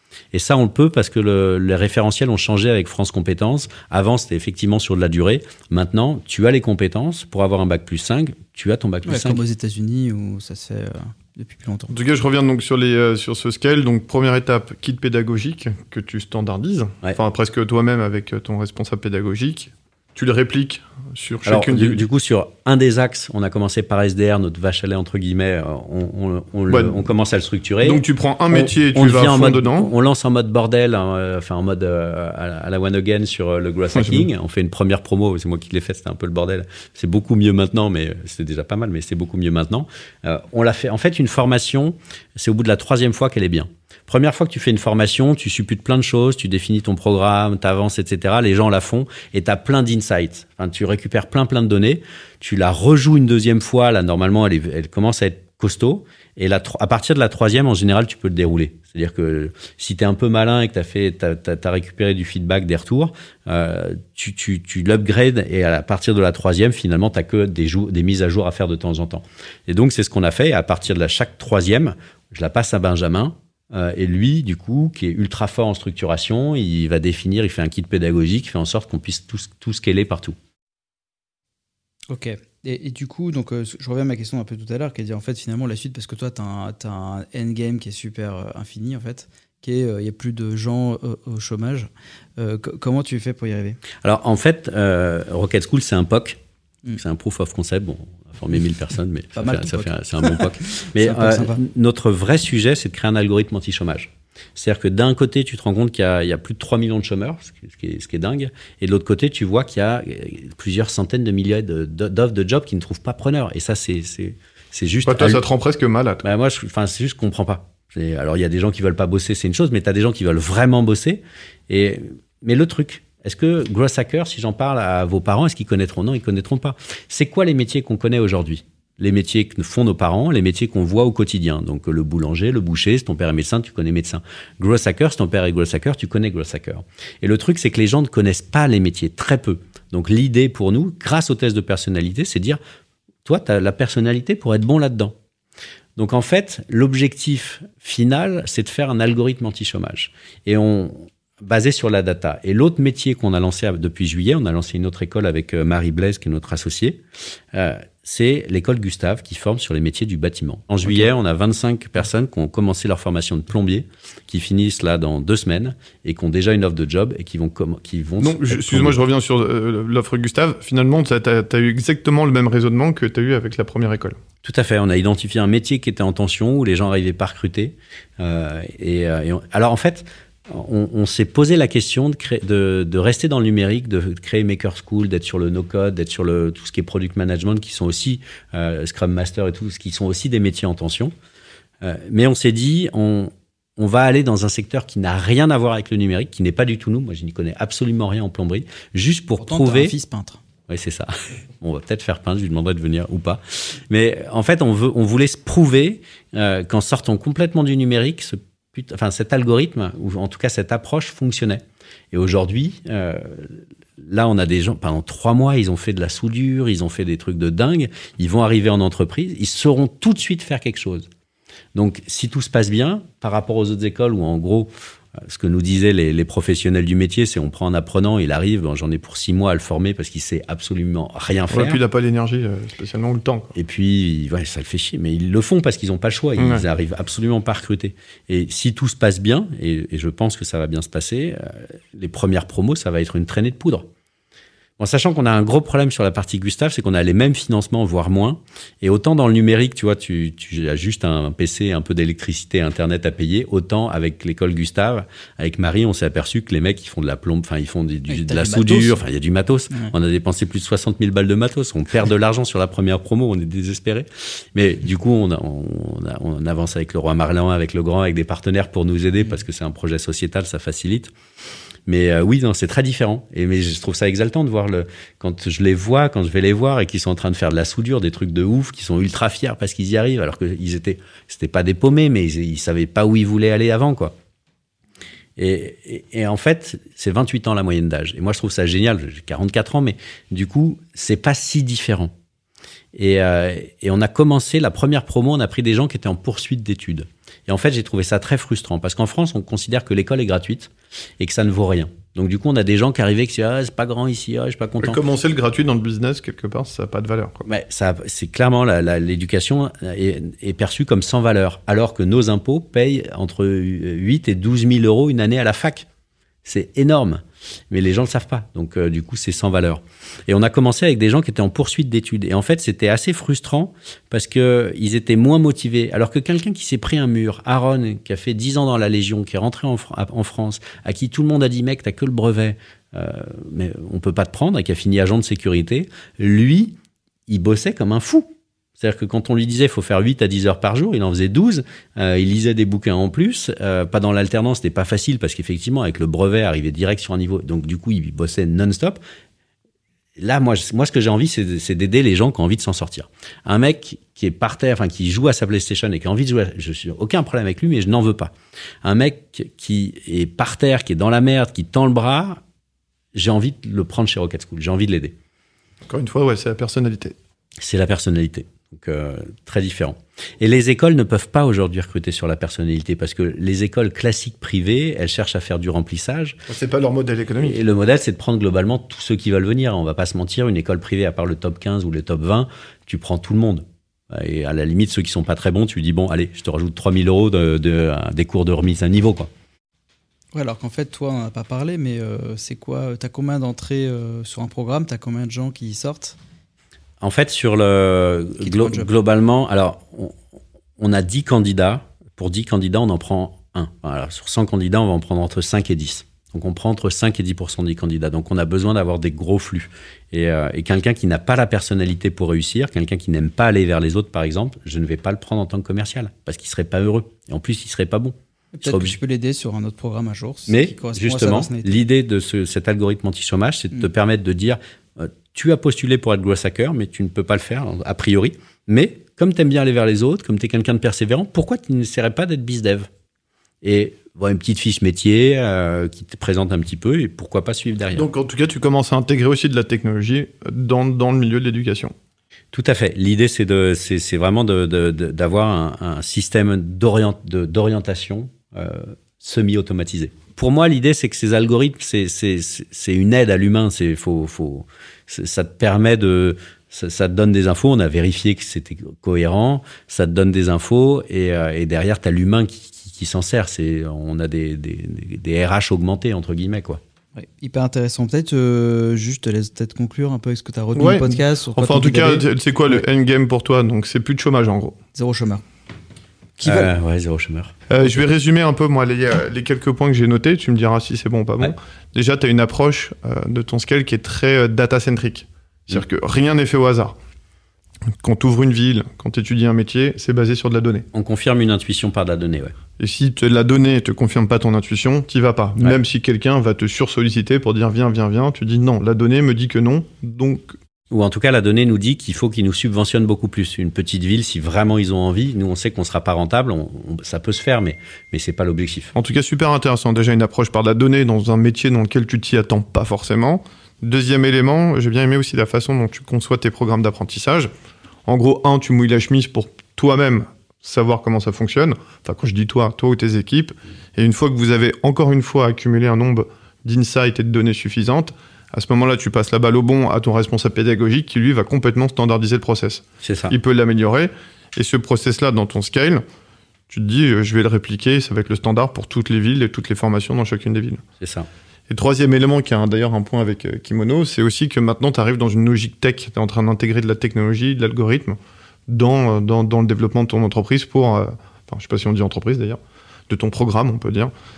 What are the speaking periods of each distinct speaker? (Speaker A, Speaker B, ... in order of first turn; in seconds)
Speaker A: 0.3-9.4, 21.4-80.4, 94.0-96.4, 96.9-115.4, 116.2-142.6, 143.2-145.2, 146.0-169.0, 174.4-191.1, 191.8-199.9, 200.7-221.1, 221.8-231.8, 233.6-243.9, 244.8-271.1, 271.9-284.1, 285.4-292.1, 292.9-305.0, 307.5-315.9, 316.4-336.8, 337.3-349.0, 350.2-362.4, 363.1-365.1, 367.6-376.4, 377.4-389.3, 397.0-400.2, 400.8-418.9, 420.5-432.9, 433.6-438.1, 442.5-466.8, 476.4-477.5, 490.9-492.6, 500.9-508.9, 533.0-533.4, 541.0-541.3
Speaker B: 9.1-11.9, 82.1-93.8, 99.4-101.6, 199.4-200.4, 258.1-259.0, 390.3-396.2, 398.4-398.9, 418.5-421.8, 467.2-472.8, 474.9-475.4, 476.4-476.7
Speaker C: 11.9-22.0, 26.7-27.1, 27.8-29.9, 34.0-34.2, 115.0-116.2, 168.2-174.2, 231.5-233.5, 236.4-236.7, 304.8-307.5, 365.9-367.1, 376.5-377.6, 437.9-441.9, 470.8-474.8, 477.7-486.9, 488.0-490.9, 492.8-500.6, 508.9-517.5, 518.1-536.0, 536.7-540.8, 541.7-554.1